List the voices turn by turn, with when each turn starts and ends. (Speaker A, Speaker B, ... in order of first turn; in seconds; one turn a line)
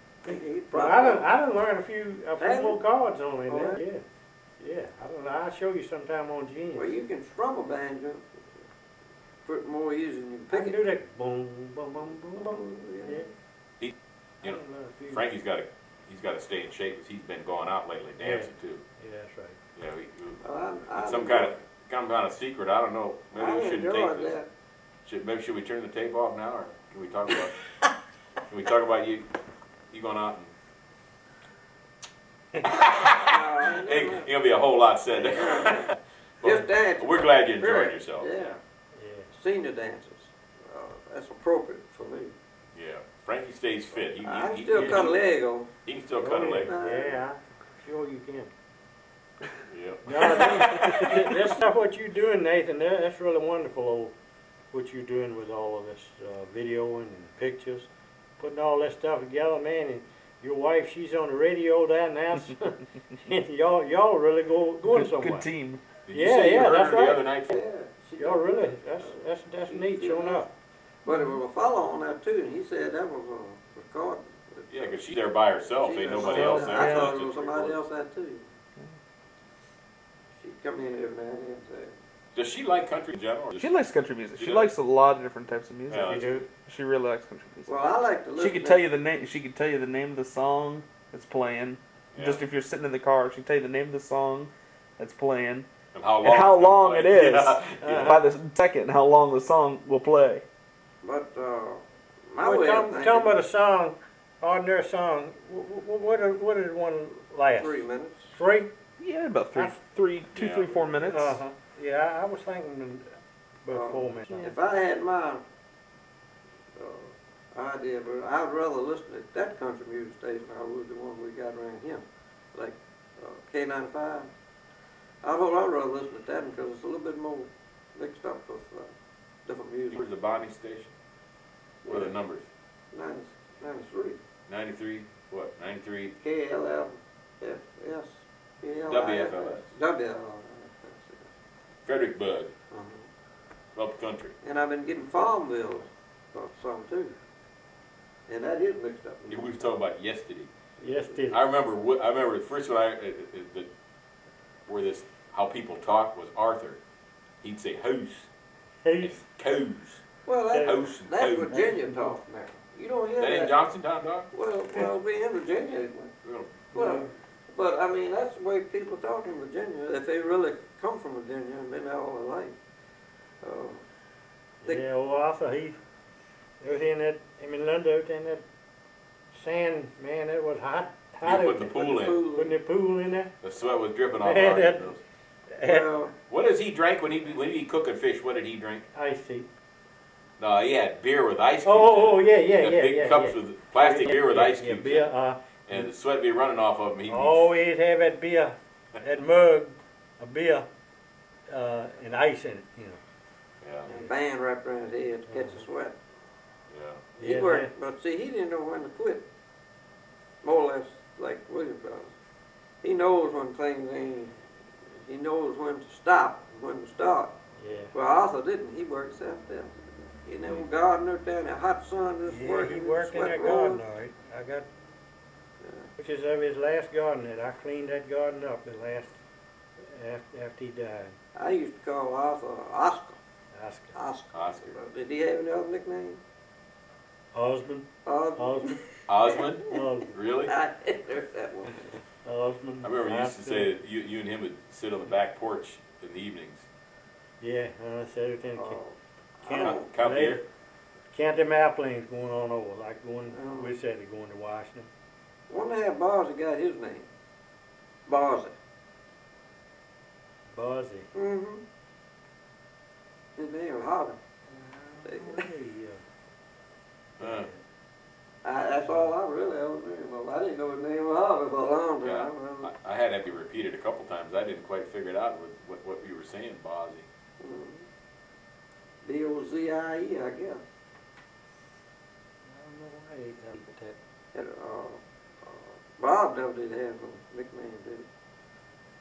Speaker A: 0.2-1.3
Speaker B: 0.3-4.0
Speaker A: 2.4-2.8
Speaker A: 3.5-3.8
Speaker B: 4.6-7.0
Speaker A: 6.8-8.2
Speaker A: 9.5-10.8
Speaker B: 10.5-13.3
Speaker A: 12.3-13.3
Speaker C: 13.8-18.8
Speaker B: 14.4-15.3
Speaker B: 18.2-19.6
Speaker C: 19.8-20.4
Speaker A: 20.4-21.6
Speaker C: 21.0-24.4
Speaker A: 23.3-24.5
Speaker C: 25.1-27.6
Speaker C: 28.5-29.3
Speaker C: 29.9-30.5
Speaker C: 32.6-38.3
Speaker A: 33.1-34.3
Speaker A: 35.1-35.9
Speaker A: 36.4-38.6
Speaker B: 39.0-39.3
Speaker A: 39.3-42.4
Speaker C: 42.8-45.2
Speaker A: 44.2-45.7
Speaker C: 45.9-46.7
Speaker B: 46.2-48.5
Speaker A: 46.5-47.2
Speaker C: 49.7-50.7
Speaker B: 50.1-54.1
Speaker B: 54.7-57.9
Speaker B: 58.4-65.5
Speaker D: 64.9-65.8
Speaker C: 66.1-67.6
Speaker B: 66.1-67.2
Speaker A: 67.5-69.2
Speaker B: 68.2-70.5
Speaker A: 69.7-70.5
Speaker A: 71.0-75.0
Speaker C: 74.7-77.8
Speaker A: 75.8-78.5
Speaker D: 76.2-76.8
Speaker B: 76.6-77.1
Speaker A: 80.4-82.0
Speaker C: 82.3-83.8
Speaker D: 83.6-86.2
Speaker C: 84.3-84.7
Speaker C: 85.9-86.5
Speaker B: 86.0-86.5
Speaker D: 86.7-87.8
Speaker A: 87.7-88.9
Speaker D: 88.4-95.7
Speaker C: 92.1-92.4
Speaker C: 95.9-98.2
Speaker D: 96.2-100.5
Speaker B: 97.8-98.3
Speaker A: 101.0-103.4
Speaker B: 102.4-108.7
Speaker A: 107.6-108.3
Speaker D: 109.0-111.4
Speaker C: 110.3-110.8
Speaker B: 111.0-113.1
Speaker B: 113.7-114.5
Speaker A: 113.7-115.4
Speaker A: 116.8-124.3
Speaker A: 125.2-128.9
Speaker A: 129.5-130.0
Speaker C: 129.9-130.9
Speaker A: 131.8-132.1
Speaker C: 131.9-132.4
Speaker A: 132.9-134.2
Speaker C: 134.5-136.2
Speaker A: 136.2-141.3
Speaker C: 138.9-139.7
Speaker C: 141.9-142.5
Speaker A: 142.7-143.1
Speaker C: 143.8-144.3
Speaker A: 144.4-147.1
Speaker A: 148.3-149.6
Speaker C: 149.3-150.5
Speaker B: 150.8-151.4
Speaker C: 151.3-153.7
Speaker C: 154.7-156.8
Speaker C: 157.4-158.3
Speaker B: 158.8-159.2
Speaker C: 159.0-160.0
Speaker A: 160.3-163.6
Speaker C: 160.6-161.6
Speaker B: 161.5-162.1
Speaker C: 163.2-164.3
Speaker A: 164.3-166.1
Speaker C: 166.2-166.7
Speaker A: 166.7-172.6
Speaker B: 166.7-167.1
Speaker A: 173.4-173.8
Speaker B: 174.6-175.8
Speaker B: 176.6-178.4
Speaker B: 179.3-183.3
Speaker C: 181.2-182.2
Speaker A: 181.7-182.6
Speaker C: 183.4-185.0
Speaker B: 184.2-184.9
Speaker B: 185.5-185.9
Speaker A: 185.6-186.2
Speaker C: 186.3-188.8
Speaker B: 188.9-189.5
Speaker C: 190.4-195.1
Speaker B: 191.7-195.4
Speaker C: 195.7-197.5
Speaker B: 197.1-200.7
Speaker B: 201.5-203.0
Speaker C: 203.6-203.9
Speaker A: 203.9-206.0
Speaker B: 205.3-205.6
Speaker C: 206.7-207.1
Speaker A: 207.2-209.3
Speaker B: 207.2-207.7
Speaker A: 210.4-212.1
Speaker A: 212.8-214.4
Speaker A: 215.0-217.3
Speaker B: 217.6-217.9
Speaker A: 217.9-219.7
Speaker A: 220.2-223.8
Speaker B: 222.3-224.7
Speaker A: 225.6-225.9
Speaker B: 226.0-229.2
Speaker B: 229.9-231.2
Speaker A: 231.3-233.2
Speaker B: 233.5-233.9
Speaker A: 233.9-236.2
Speaker C: 234.3-234.8
Speaker B: 237.3-238.8
Speaker A: 238.1-238.9
Speaker C: 239.1-240.5
Speaker B: 239.7-240.2
Speaker A: 240.5-241.9
Speaker B: 242.2-243.7
Speaker C: 242.8-246.7
Speaker B: 247.4-248.8
Speaker A: 248.6-249.9
Speaker B: 249.4-250.4
Speaker C: 249.5-250.4
Speaker B: 251.1-254.9
Speaker A: 253.3-253.7
Speaker A: 255.5-257.1
Speaker A: 258.1-258.5
Speaker B: 260.5-261.1
Speaker A: 261.1-261.6
Speaker A: 263.4-264.2
Speaker B: 264.5-266.0
Speaker A: 265.1-265.5
Speaker B: 267.2-267.6
Speaker C: 267.2-267.5
Speaker A: 268.4-272.7
Speaker C: 272.0-277.1
Speaker A: 277.4-277.9
Speaker A: 279.0-280.6
Speaker B: 282.5-284.0
Speaker A: 284.3-288.1